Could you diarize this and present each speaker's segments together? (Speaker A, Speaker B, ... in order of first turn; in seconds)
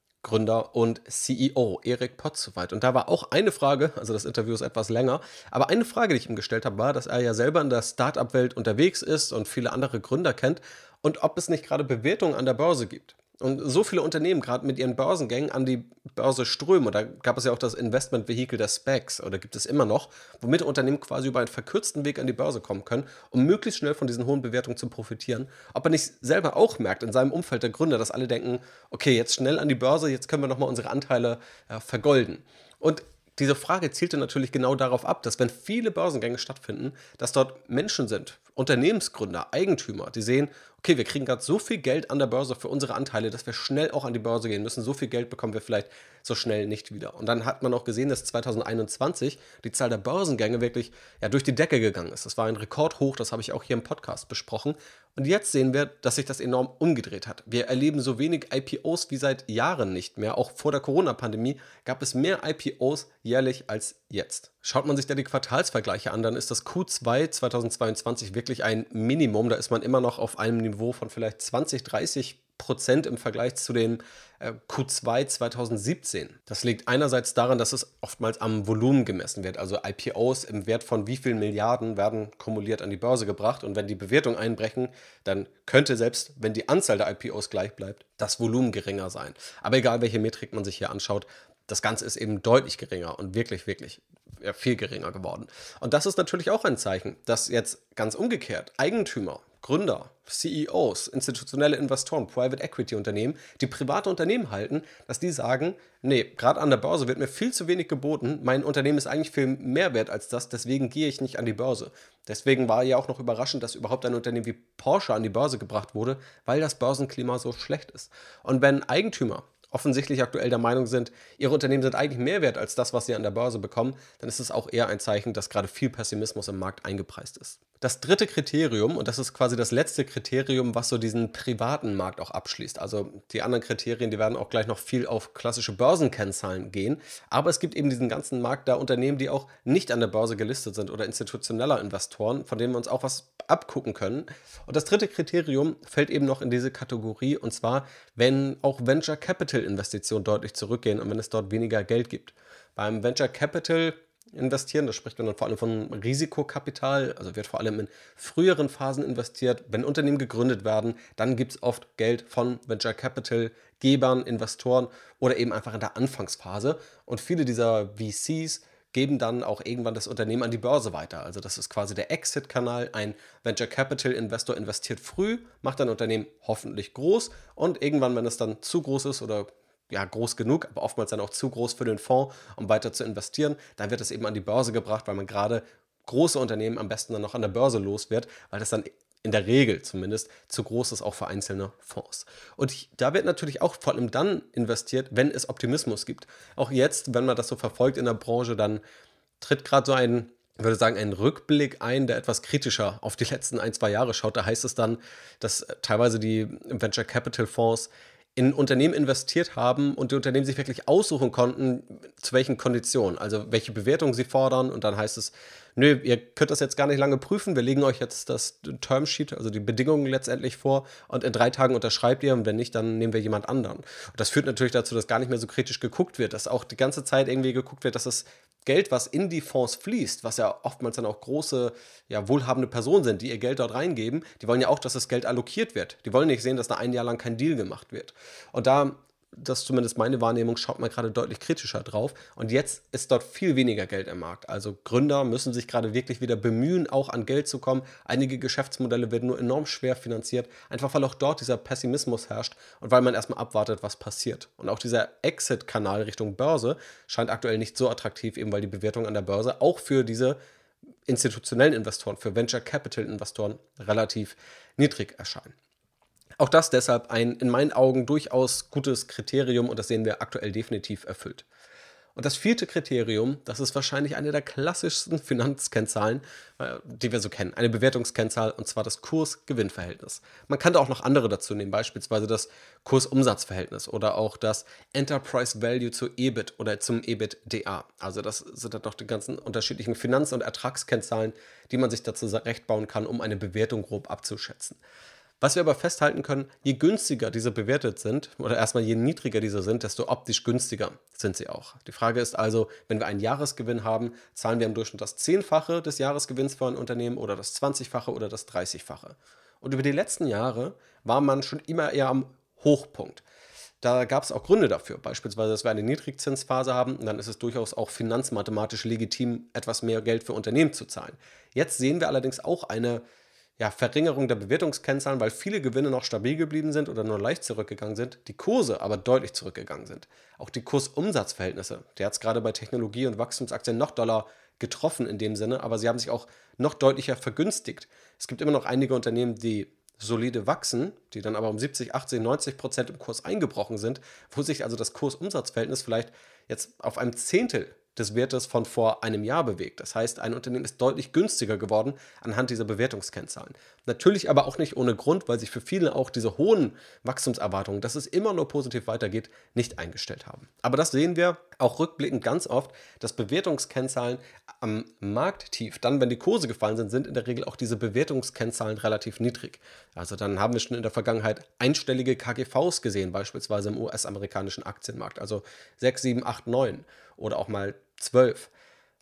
Speaker A: 0.2-198.8, 199.4-260.4, 261.1-265.6, 266.4-271.4, 272.2-294.8, 295.4-313.2, 313.8-323.0, 323.6-378.5